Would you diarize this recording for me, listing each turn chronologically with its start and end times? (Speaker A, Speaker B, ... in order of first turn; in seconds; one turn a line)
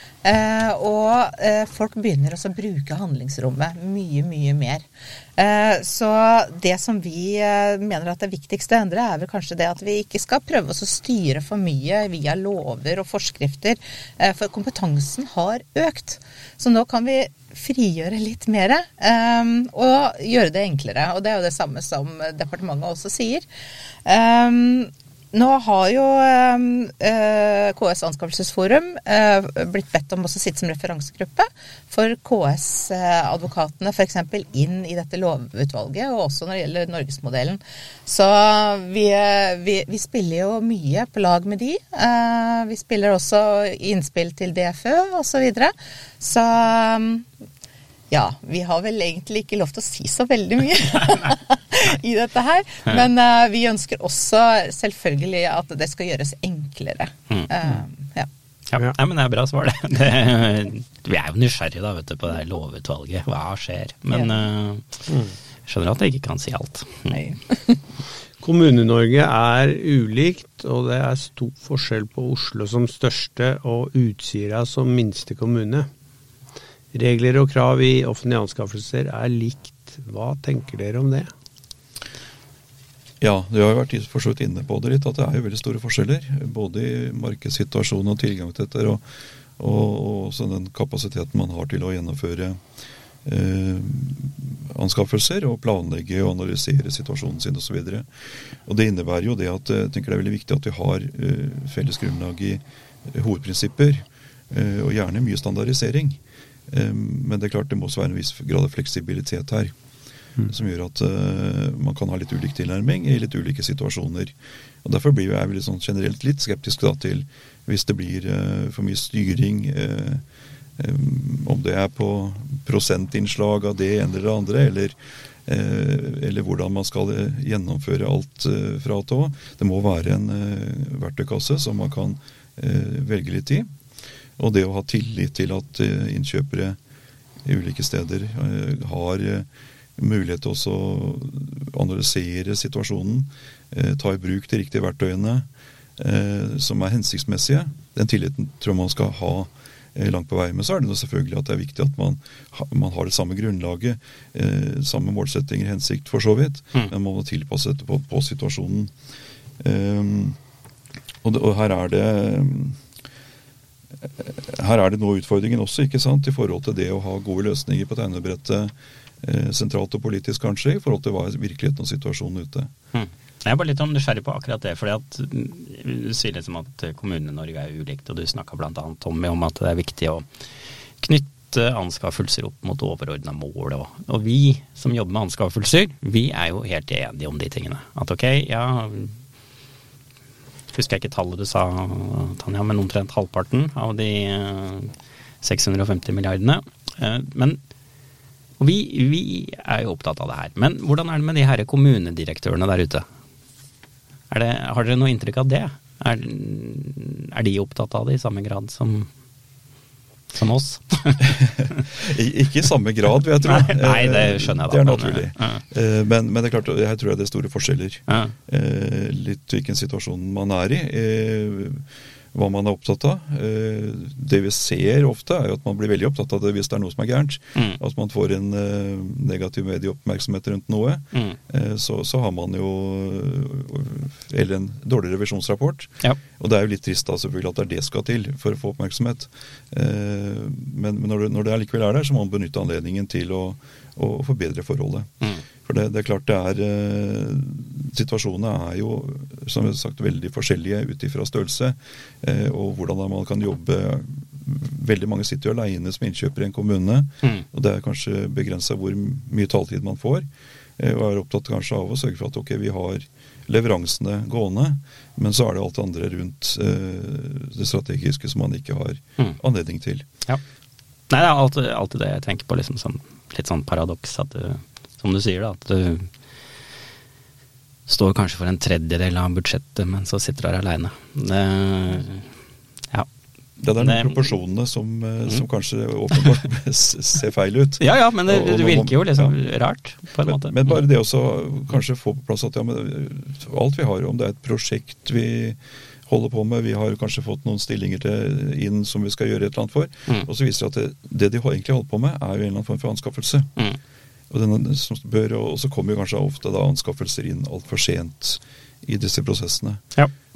Speaker A: 0.2-4.8
Speaker A: 5.4-23.4
Speaker A: 24.0-47.2
Speaker A: 48.1-58.3
Speaker B: 58.7-65.0
Speaker C: 65.1-65.3
Speaker B: 65.7-67.2
Speaker A: 67.1-67.8
Speaker C: 68.4-75.9
Speaker C: 76.9-81.3
Speaker D: 83.2-89.0
Speaker D: 89.6-92.6
Speaker D: 93.2-98.1
Speaker D: 98.6-106.2
Speaker D: 106.7-109.7
Speaker D: 110.5-120.2
Speaker D: 120.8-124.9
Speaker D: 125.5-133.7
Speaker D: 134.4-136.8
Speaker D: 137.4-158.9
Speaker D: 159.6-160.4
Speaker D: 161.2-162.8
Speaker D: 164.2-172.7
Speaker B: 172.9-180.2
Speaker B: 181.0-189.1
Speaker B: 190.7-197.6
Speaker B: 198.6-203.1
Speaker B: 204.3-209.1
Speaker B: 210.3-211.8
Speaker D: 211.3-245.1
Speaker B: 213.4-215.6
Speaker B: 218.1-218.3
Speaker D: 245.6-260.3
Speaker D: 260.8-270.1
Speaker B: 271.1-276.1
Speaker B: 277.9-282.3
Speaker D: 283.6-289.4
Speaker B: 283.8-284.3
Speaker B: 287.8-290.8
Speaker D: 290.2-303.5
Speaker D: 304.3-309.8